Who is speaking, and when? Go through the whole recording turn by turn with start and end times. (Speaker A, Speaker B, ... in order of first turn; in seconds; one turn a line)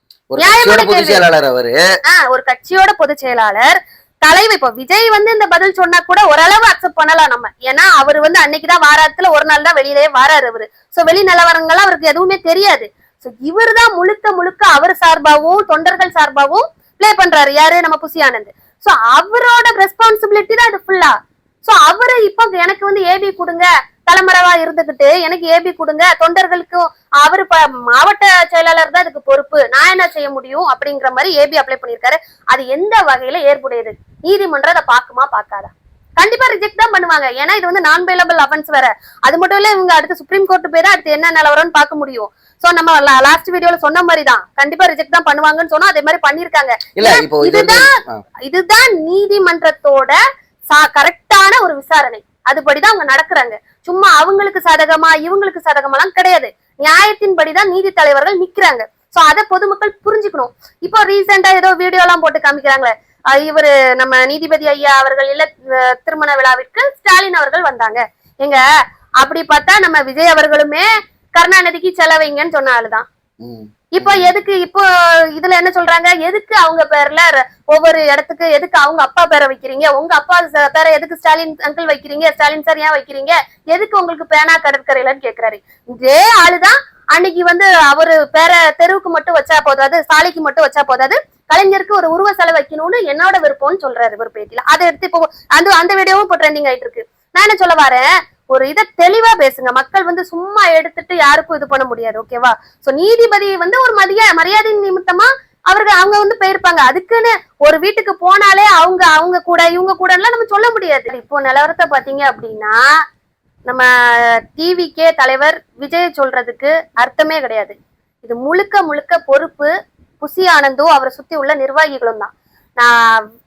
Speaker A: 0.3-1.8
Speaker B: 0.4-1.2
Speaker B: 2.0-47.8
Speaker A: 47.0-48.2
Speaker B: 48.4-50.2
Speaker B: 50.7-68.6
Speaker B: 69.2-73.0
Speaker A: 73.4-74.3
Speaker B: 73.9-74.8
Speaker B: 75.4-112.8
Speaker B: 113.7-123.1